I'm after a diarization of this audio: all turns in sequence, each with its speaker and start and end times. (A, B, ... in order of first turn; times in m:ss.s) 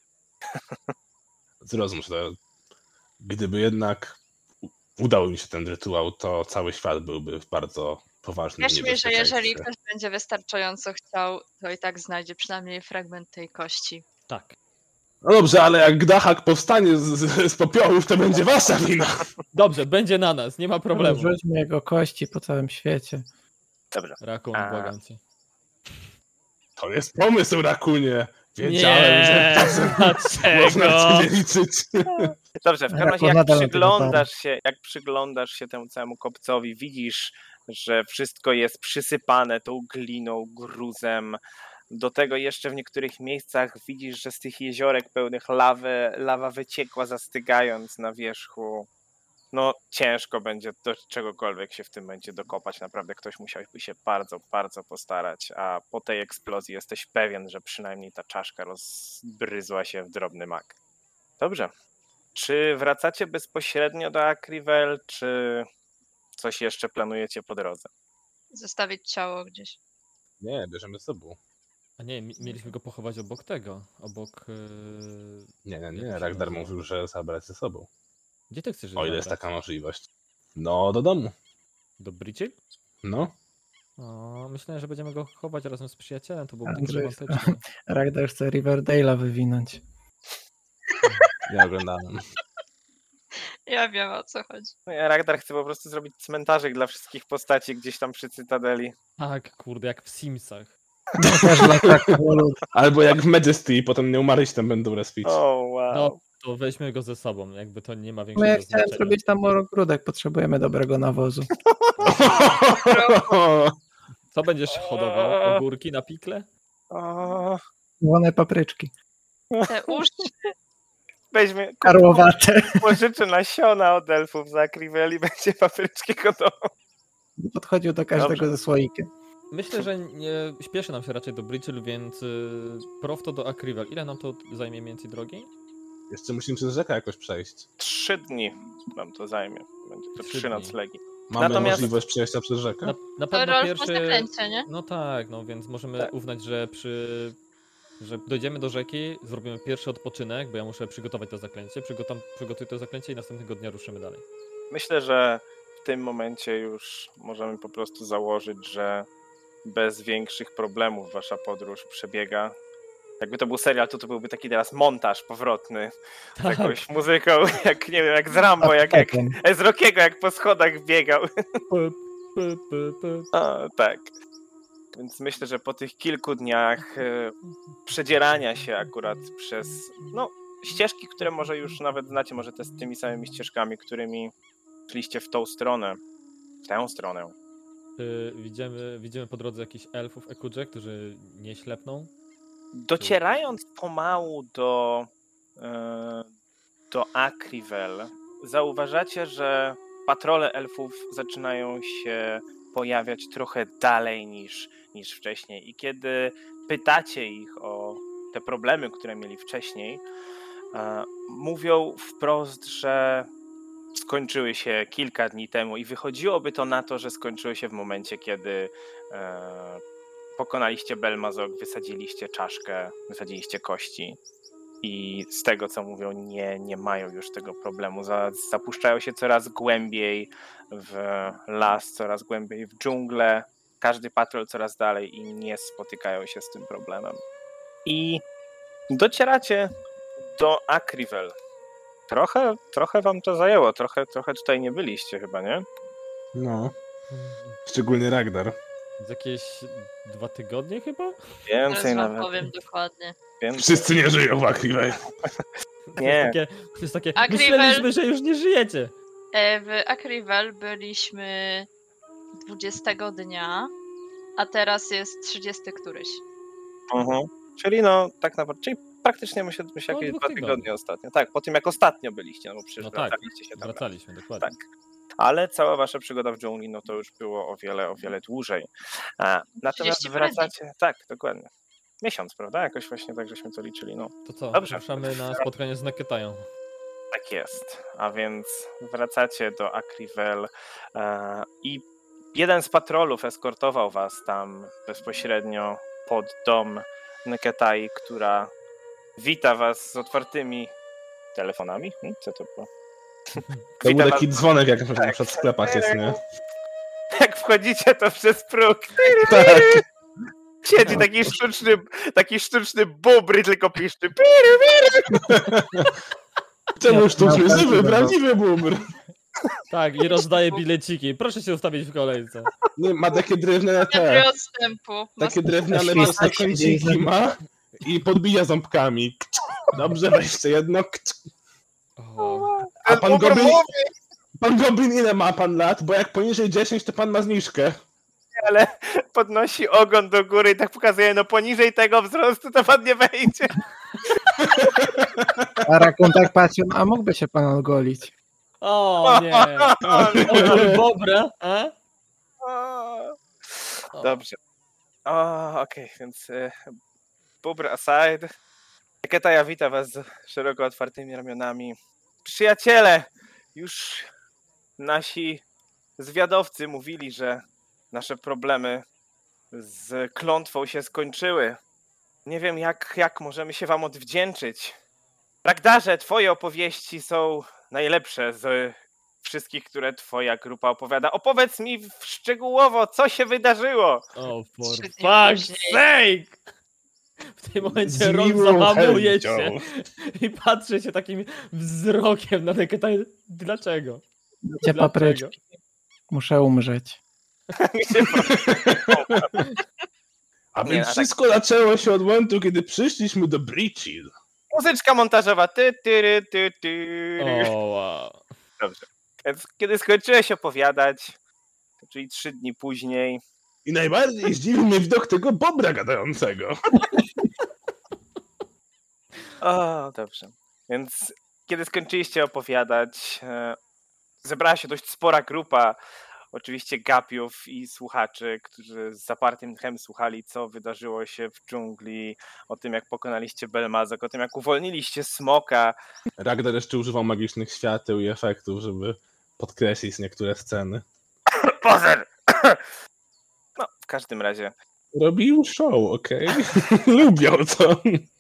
0:01.6-0:02.4 A
0:03.2-0:04.2 A
0:05.0-0:09.7 A
0:08.6-0:14.0 B
0:14.3-0:14.6 C
0:15.2-0:19.3 A
0:19.5-0:21.3 C
0:21.0-0:23.3 D
0:23.9-0:24.9 E
0:24.2-0:25.2 C
0:26.8-0:32.3 A
0:28.6-0:31.3 C
0:32.1-0:41.4 E
0:32.9-0:34.3 D
0:41.9-0:48.9 E
0:49.5-1:00.8 E
1:01.4-1:01.7 E
1:02.3-1:05.7 E
1:06.4-1:07.9 E
1:08.5-1:09.8 B
1:10.4-1:11.4 A
1:12.0-1:16.7 C
1:15.7-1:17.9 A
1:18.5-1:19.4 C
1:19.0-1:20.0 A
1:20.6-1:21.3 A
1:22.0-1:22.6 C
1:23.0-1:23.3 A
1:24.0-1:27.6 C
1:26.7-1:29.8 D
1:31.5-1:32.2 A
1:33.7-1:34.7 B
1:34.9-1:39.0 E
1:39.2-1:40.7 C
1:41.2-1:42.6 D
1:42.7-1:45.4 A
1:45.2-1:46.2 E
1:45.9-1:49.2 C
1:48.4-1:51.5 D
1:51.7-1:51.9 E
1:52.0-1:53.7 A
1:52.3-1:53.3 B
1:54.3-1:56.5 C
1:54.8-1:55.6 E
1:56.9-1:57.6 E
1:58.0-1:58.9 D
1:59.5-2:00.0 E
1:59.7-2:00.5 B
2:01.3-2:06.6 E
2:01.8-2:03.0 D
2:07.4-2:09.1 D
2:08.2-2:08.5 E
2:09.5-2:15.5 C
2:16.1-2:17.7 A
2:17.8-2:22.0 E
2:20.2-2:20.8 C
2:21.3-2:23.0 A
2:21.4-2:21.9 C
2:22.8-2:27.4 C
2:23.3-2:24.7 B
2:28.0-2:34.2 C
2:34.7-2:39.1 E
2:39.6-2:42.6 E
2:43.2-2:51.3 E
2:46.4-2:46.8 C
2:48.6-2:49.4 D
2:51.7-2:53.3 C
2:53.3-2:54.1 E
2:54.9-3:04.3 E
3:04.9-3:06.0 E
3:06.6-3:07.3 E
3:08.0-3:12.1 C
3:12.7-3:16.3 E
3:16.9-3:30.0 E
3:30.7-3:33.3 E
3:34.0-3:39.8 E
3:40.4-3:44.2 E
3:44.8-3:57.2 E
3:57.8-3:58.2 E
3:58.9-3:59.7 E
4:00.3-4:01.3 E
4:02.1-4:05.6 E
4:06.4-4:06.7 A
4:07.1-4:07.6 C
4:07.7-4:08.6 A
4:09.0-4:11.2 C
4:11.5-4:12.4 E
4:11.7-4:13.2 B
4:13.4-4:13.9 E
4:13.6-4:15.0 A
4:15.9-4:18.9 C
4:16.0-4:16.4 E
4:17.2-4:17.9 B
4:19.3-4:21.7 B
4:22.4-4:23.7 B
4:24.4-4:26.2 B
4:26.9-4:33.9 E
4:29.9-4:30.6 C
4:32.8-4:34.5 C
4:35.2-4:41.5 E
4:39.7-4:40.5 B
4:42.0-4:45.5 E
4:44.3-4:46.5 C
4:47.1-4:58.5 E
4:59.2-5:00.7 E
5:01.4-5:02.7 E
5:03.4-5:03.7 C
5:03.8-5:06.2 E
5:03.8-5:06.2 A
5:07.2-5:09.8 E
5:09.2-5:09.8 A
5:10.6-5:15.1 E
5:15.2-5:15.9 A
5:16.8-5:18.9 A
5:16.9-5:18.2 D
5:19.7-5:22.5 C
5:22.8-5:24.3 A
5:23.9-5:26.2 B
5:25.2-5:31.3 A
5:25.7-5:27.1 D
5:32.0-5:32.6 C
5:32.7-5:33.9 E
5:32.9-5:33.6 A
5:34.4-5:37.8 A
5:38.4-5:43.6 E
5:44.5-5:45.6 A
5:45.6-5:48.1 D
5:48.6-5:51.7 C
5:49.1-5:50.7 E
5:49.8-5:50.8 A
5:52.4-5:54.4 E
5:53.9-5:54.2 C
5:55.1-5:56.8 E
5:57.4-5:58.3 E
5:59.0-6:04.1 E
6:04.8-6:05.4 E
6:06.0-6:08.8 E
6:09.5-6:11.6 E
6:12.3-6:14.8 E
6:15.4-6:24.0 E
6:24.2-6:26.4 C
6:24.6-6:25.8 B
6:27.4-6:34.0 C
6:27.6-6:29.6 A
6:34.4-6:35.4 D
6:34.6-6:35.3 C
6:36.1-6:37.0 D
6:37.6-6:39.3 E
6:38.5-6:39.4 A
6:40.5-6:44.1 A
6:40.6-6:41.2 E
6:44.5-6:47.5 E
6:47.2-6:48.4 C
6:48.6-6:51.2 E
6:51.8-6:53.2 E
6:53.6-6:56.6 A
6:59.4-7:03.6 E
7:04.2-7:05.8 E
7:06.3-7:15.8 E
7:16.2-7:20.8 A
7:21.3-7:22.6 E
7:23.6-7:24.5 E
7:24.9-7:28.1 A